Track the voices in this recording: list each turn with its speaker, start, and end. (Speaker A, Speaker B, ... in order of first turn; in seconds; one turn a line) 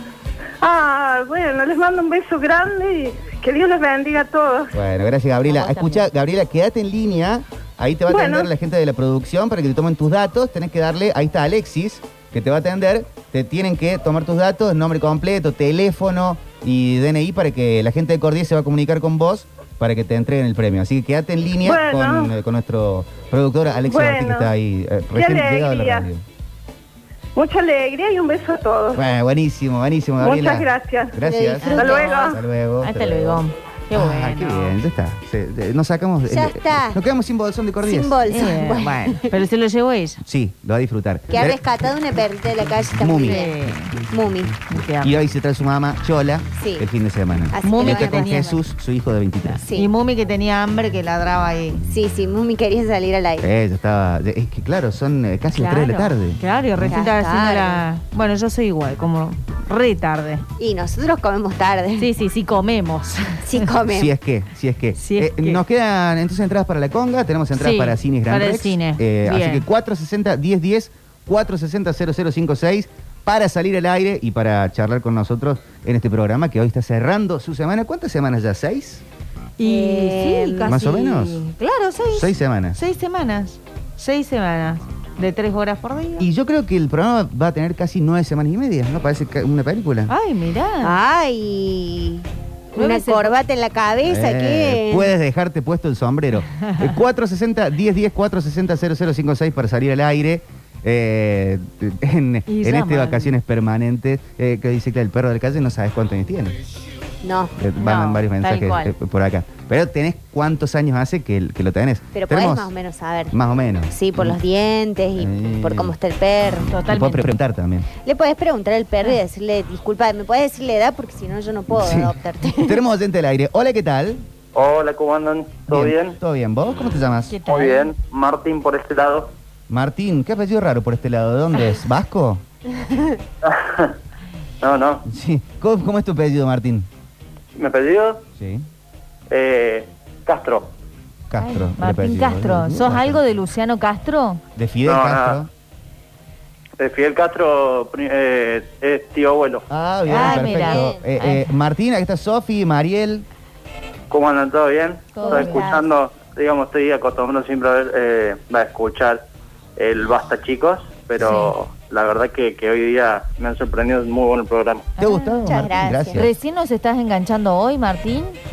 Speaker A: 0.6-4.7
Speaker B: 4.7-26.2
Speaker C: 5.5-6.0
Speaker A: 8.1-8.5
Speaker A: 21.6-22.3
Speaker A: 23.9-24.5
Speaker A: 25.1-26.1
Speaker A: 27.4-29.0
Speaker B: 28.9-38.3
Speaker A: 30.2-31.2
Speaker D: 31.2-32.1
Speaker C: 31.6-34.8
Speaker A: 31.7-32.4
Speaker D: 36.2-37.0
Speaker D: 37.8-39.2
Speaker C: 38.3-40.2
Speaker B: 40.2-41.6
Speaker D: 41.3-43.5
Speaker B: 43.0-43.5
Speaker C: 43.2-44.0
Speaker D: 44.0-44.6
Speaker C: 44.7-45.1
Speaker B: 45.0-49.6
Speaker D: 46.6-46.9
Speaker D: 47.5-48.6
Speaker C: 47.6-48.5
Speaker C: 49.4-51.8
Speaker D: 49.6-49.9
Speaker D: 51.9-53.5
Speaker B: 53.4-57.0
Speaker C: 55.5-60.4
Speaker D: 56.9-57.8
Speaker D: 60.6-62.1
Speaker C: 62.0-63.4
Speaker D: 63.4-64.1
Speaker B: 63.9-79.0
Speaker C: 65.0-65.6
Speaker C: 67.6-69.6
Speaker C: 79.6-86.2
Speaker D: 79.6-80.8
Speaker B: 80.7-81.4
Speaker B: 82.1-82.8
Speaker B: 86.2-90.1
Speaker C: 90.1-90.9
Speaker D: 90.8-95.1
Speaker C: 92.7-93.4
Speaker B: 94.0-106.6
Speaker C: 96.6-96.9
Speaker C: 102.5-103.4
Speaker D: 107.2-107.5
Speaker B: 107.6-112.7
Speaker C: 107.8-108.9
Speaker D: 112.1-113.4
Speaker B: 113.3-114.4
Speaker D: 113.9-116.7
Speaker B: 115.1-115.9
Speaker C: 116.7-117.3
Speaker B: 116.9-117.9
Speaker D: 118.0-122.8
Speaker B: 121.7-124.2
Speaker E: 124.5-126.2
Speaker B: 125.7-127.3
Speaker C: 127.3-127.9
Speaker E: 127.5-129.3
Speaker B: 129.7-132.4
Speaker E: 133.4-134.0
Speaker E: 134.6-135.1
Speaker B: 135.1-136.9
Speaker E: 137.5-138.2
Speaker B: 138.4-138.7
Speaker E: 139.3-140.7
Speaker B: 141.3-143.2
Speaker C: 141.4-144.4
Speaker B: 144.6-145.5
Speaker E: 144.8-145.4
Speaker E: 146.8-149.7
Speaker B: 149.7-153.2
Speaker C: 150.1-151.5
Speaker D: 150.1-151.0
Speaker E: 154.1-159.2
Speaker C: 155.1-155.7
Speaker D: 155.2-155.8
Speaker E: 159.8-164.9
Speaker C: 161.2-161.5
Speaker C: 165.0-165.4
Speaker B: 165.0-166.4
Speaker D: 165.4-166.2
Speaker C: 166.1-168.4